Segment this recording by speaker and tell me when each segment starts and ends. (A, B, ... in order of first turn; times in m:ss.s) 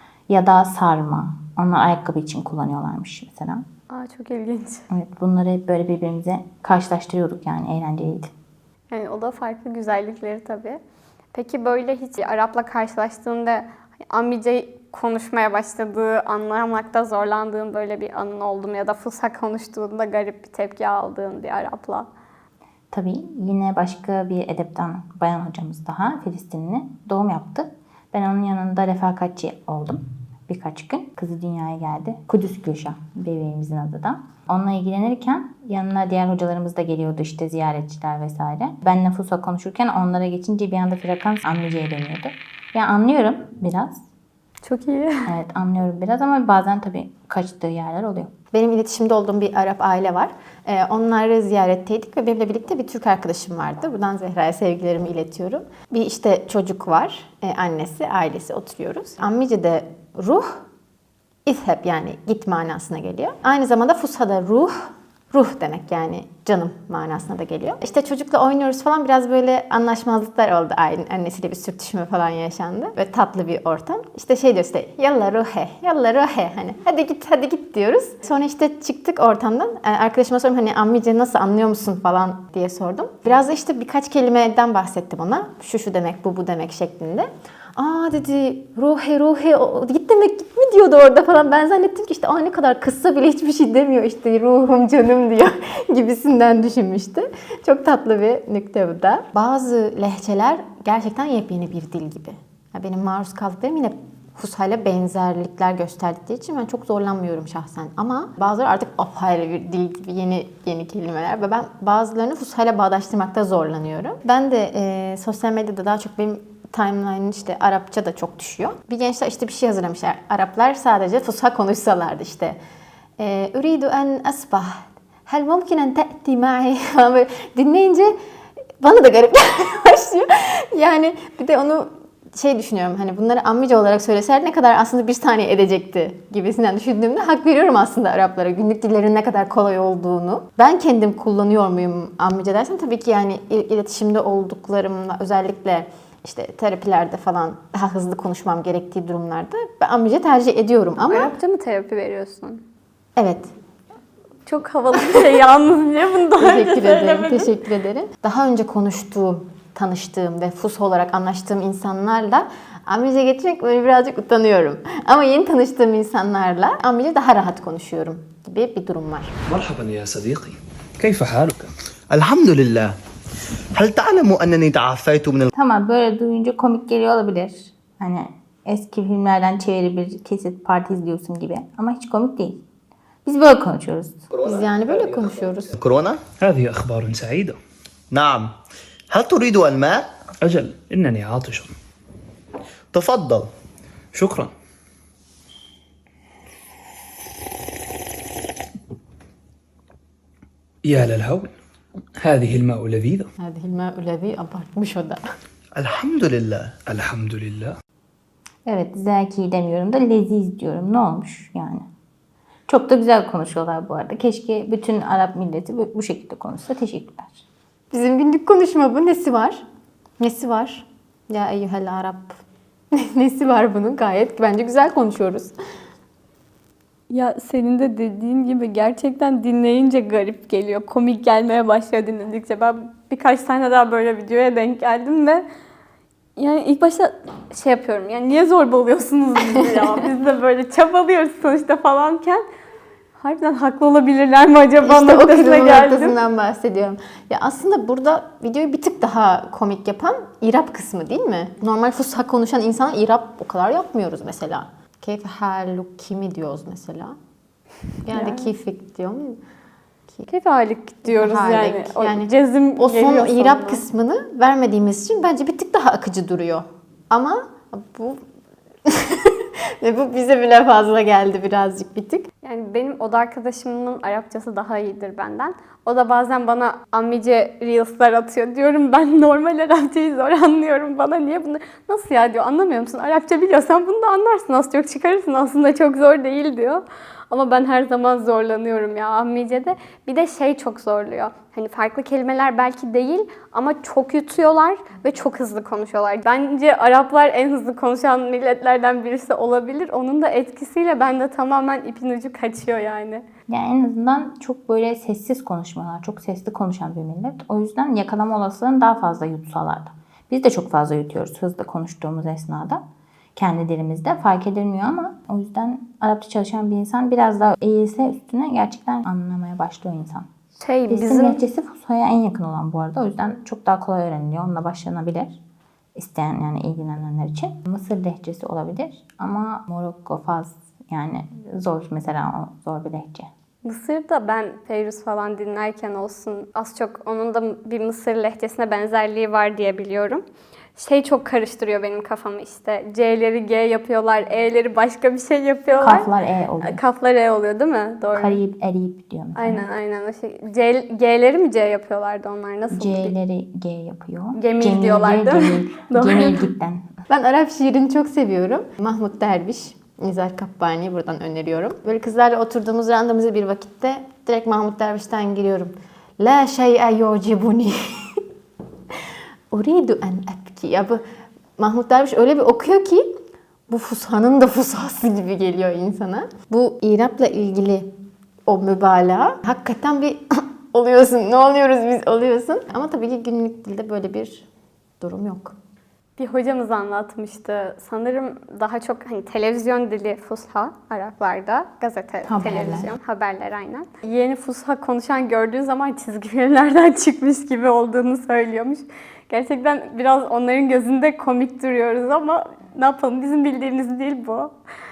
0:00.3-0:03.6 A
0:03.9-0:04.8 B
0:04.9-0:08.3 A
0:08.9-0:10.8 B
0:11.3-0:22.1 B
0:22.9-0:44.0 A
0:44.6-0:45.2 B
0:45.3-0:48.3 A
0:48.5-1:00.6 C
1:01.5-1:04.8 C
1:05.3-2:02.6 C
2:03.2-2:08.2 C
2:08.8-2:31.3 C
2:31.1-2:32.6 B
2:33.2-2:33.5 C
2:34.5-2:37.5 B
2:36.4-2:49.3 C
2:49.5-2:51.7 D
2:52.1-2:53.0 E
2:53.7-2:55.5 E
2:55.6-3:02.6 A
3:03.2-3:04.2 A
3:04.4-3:04.7 E
3:04.5-3:05.7 C
3:05.7-3:06.2 E
3:06.4-3:07.6 D
3:08.1-3:08.5 E
3:09.1-3:10.1 E
3:10.4-3:11.7 D
3:12.9-3:13.5 E
3:14.1-3:14.5 D
3:20.8-3:21.5 D
3:22.2-3:23.3 D
3:23.4-3:25.2 C
3:25.8-3:26.7 E
3:26.9-3:27.8 D
3:28.7-3:31.9 A
3:32.7-3:37.4 A
3:37.9-3:39.6 C
3:40.2-3:42.4 C
3:42.9-3:45.5 C
3:47.1-3:55.4 B
3:56.4-4:02.4 B
4:03.2-4:06.2 B
4:04.8-4:17.2 C
4:18.1-4:19.4 C
4:18.1-4:18.5 B
4:20.3-4:23.9 B
4:21.0-4:28.2 C
4:28.9-4:32.3 C
4:32.4-5:03.2 B
5:03.5-5:12.8 A
5:13.4-5:20.3 A
5:20.6-5:21.4 B
5:20.9-5:25.4 A
5:26.0-5:33.3 A
5:33.6-5:40.2 B
5:40.8-5:46.1 B
5:45.8-5:46.8 A
5:46.6-5:48.4 B
5:48.2-5:49.7 A
5:49.4-5:53.1 B
5:52.7-5:56.9 A
5:54.4-5:56.5 B
5:57.1-6:08.2 C
6:09.5-6:11.0 C
6:11.6-6:13.1 C
6:13.7-6:17.9 C
6:18.5-6:24.5 C
6:25.0-6:25.5 C
6:26.2-6:44.5 B
6:32.3-6:33.0 A